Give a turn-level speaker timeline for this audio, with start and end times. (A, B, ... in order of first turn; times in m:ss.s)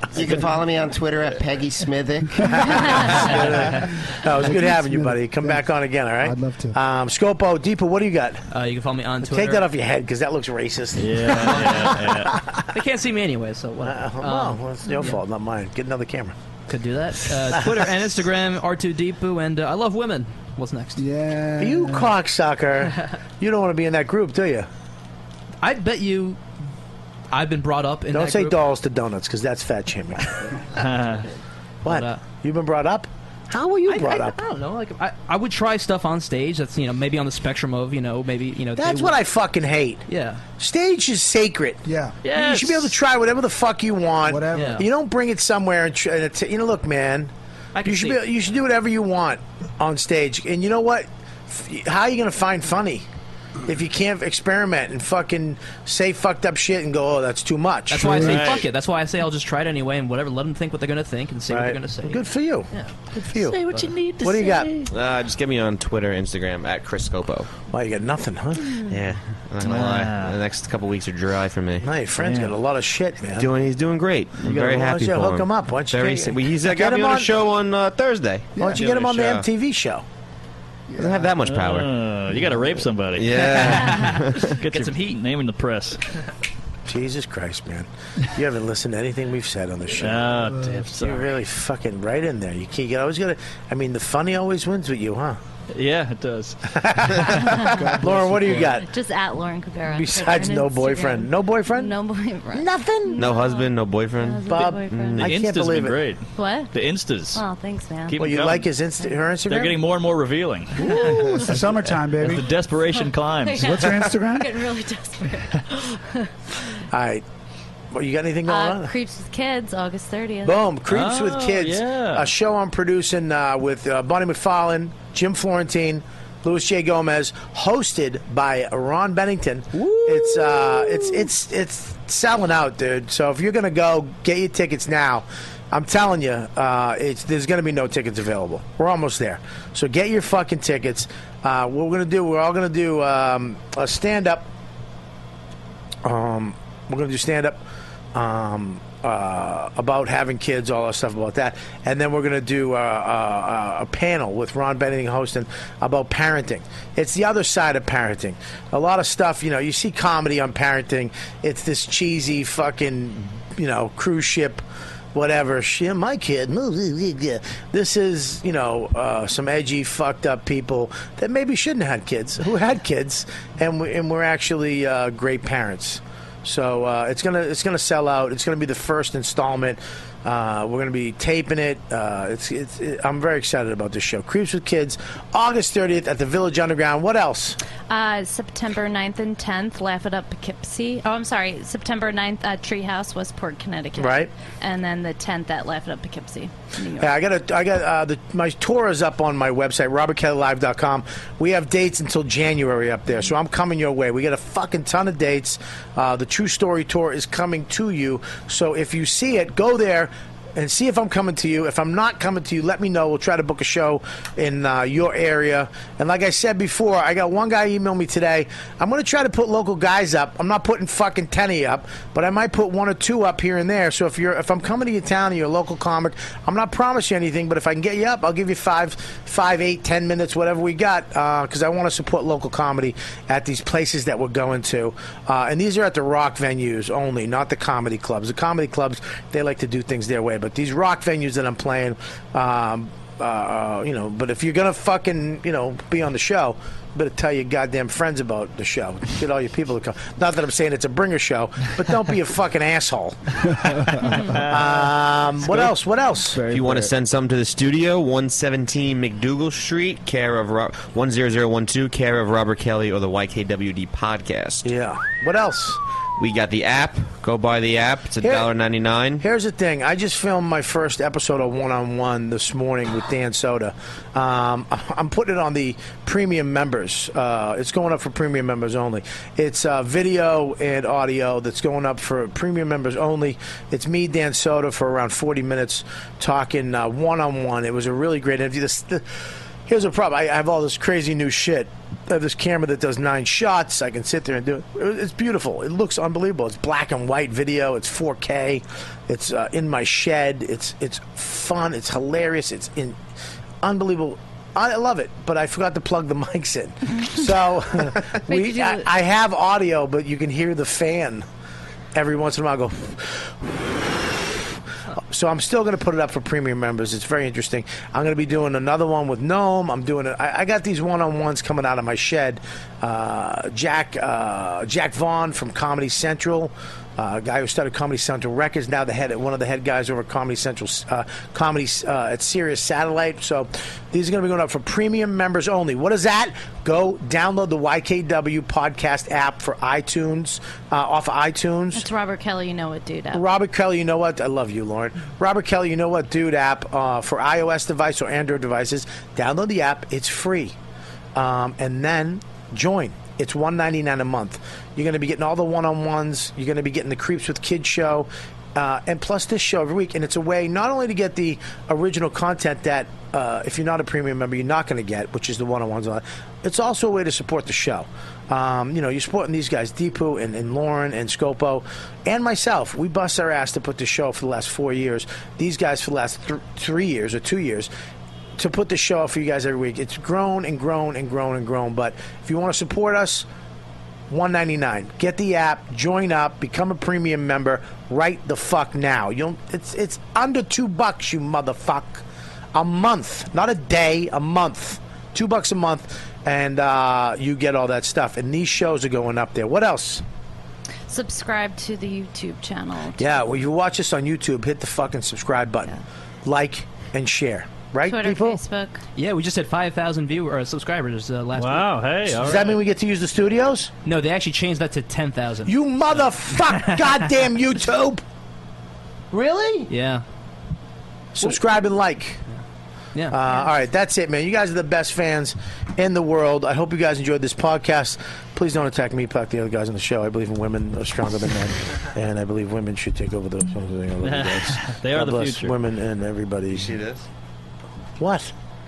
0:00.1-0:03.1 A
0:02.5-0:08.4 B
0:04.4-0:05.7 C
0:06.2-0:06.8 C
0:08.5-0:09.7 D
0:09.2-0:11.9 B
0:11.0-0:12.3 E
0:11.3-0:12.0 D
0:12.7-0:15.2 D
0:13.8-0:16.4 B
0:16.7-0:21.0 D
0:17.5-0:17.9 B
0:21.0-0:22.1 C
0:21.6-0:24.7 B
0:25.6-0:26.4 D
0:27.3-0:28.6 D
0:28.1-0:30.4 B
0:30.8-0:31.2 E
0:31.8-0:32.2 D
0:31.8-0:34.4 B
0:33.9-0:39.2 D
0:38.8-0:40.0 B
0:40.1-0:40.4 D
0:40.6-0:47.3 B
0:41.8-0:42.2 C
0:42.2-0:42.9 E
0:44.2-0:44.8 C
0:44.5-0:44.9 D
0:47.8-0:48.2 D
0:47.8-0:53.0 B
0:53.7-0:58.3 B
0:57.9-1:04.8 D
0:58.0-0:58.5 C
0:58.2-0:58.6 E
1:01.5-1:04.8 B
1:04.9-1:07.5 F
1:07.7-1:08.8 B
1:08.9-1:11.9 F
1:09.6-1:10.4 E
1:11.8-1:13.5 B
1:12.2-1:12.5 E
1:13.4-1:19.5 F
1:14.4-1:17.3 B
1:18.6-1:18.8 C
1:18.6-1:20.0 B
1:20.9-1:21.3 C
1:21.0-1:21.9 F
1:21.4-1:23.4 E
1:23.1-1:24.5 F
1:23.5-1:25.2 D
1:24.6-1:26.0 E
1:26.9-1:35.4 B
1:30.0-1:31.3 E
1:30.5-1:30.8 C
1:35.7-1:36.6 E
1:36.8-1:38.9 B
1:37.4-1:38.0 G
1:37.8-1:38.6 C
1:38.7-1:45.3 G
1:39.9-1:41.9 B
1:42.5-1:43.3 B
1:43.2-1:45.3 F
1:44.5-1:46.0 B
1:45.2-1:47.4 E
1:46.4-1:46.7 G
1:47.3-1:48.2 G
1:48.1-1:48.7 E
1:48.2-1:49.8 B
1:49.5-1:50.9 E
1:50.8-1:52.5 C
1:50.9-1:51.5 G
1:52.2-1:53.8 E
1:52.9-1:56.3 G
1:53.6-1:54.6 C
1:56.9-1:57.2 B
1:57.9-1:58.9 B
1:58.5-2:00.7 G
2:00.4-2:24.5 B
2:00.9-2:02.3 E
2:09.8-2:11.3 D
2:26.0-2:27.6 B
2:28.1-2:44.6 B
2:45.2-3:07.6 B
3:07.9-3:17.2 G
3:14.0-3:14.3 B
3:17.0-4:13.2 B
4:13.5-4:14.0 C
4:14.1-4:14.9 E
4:14.4-4:16.4 B
4:16.4-4:16.8 C
4:16.4-4:24.7 F
4:24.6-4:25.8 B
4:26.2-4:29.2 F
4:28.2-4:28.5 B
4:29.2-4:49.0 B
4:49.7-5:03.0 B
5:03.6-5:11.2 B
5:06.9-5:07.2 G
5:08.3-5:08.9 G
5:12.0-5:14.4 B
5:15.1-5:41.9 B
5:41.7-5:43.2 G
5:43.1-5:50.5 B
5:51.2-6:17.7 B
6:18.4-6:23.2 B
6:24.1-6:40.0 B
6:40.9-6:43.3 G
6:43.0-6:45.7 B
6:46.2-6:48.4 B
6:47.8-6:48.8 G
6:49.0-6:51.7 D
6:51.4-6:52.6 E
6:52.2-6:53.7 B
6:53.8-6:55.6 D
6:55.5-6:58.0 B
6:56.4-6:57.1 D
6:59.1-6:59.7 B
6:59.7-7:00.0 D
7:01.2-7:02.2 B
7:03.0-7:03.2 D
7:03.1-7:16.8 B
7:14.0-7:15.5 E
7:16.5-7:17.0 F
7:18.0-7:18.3 B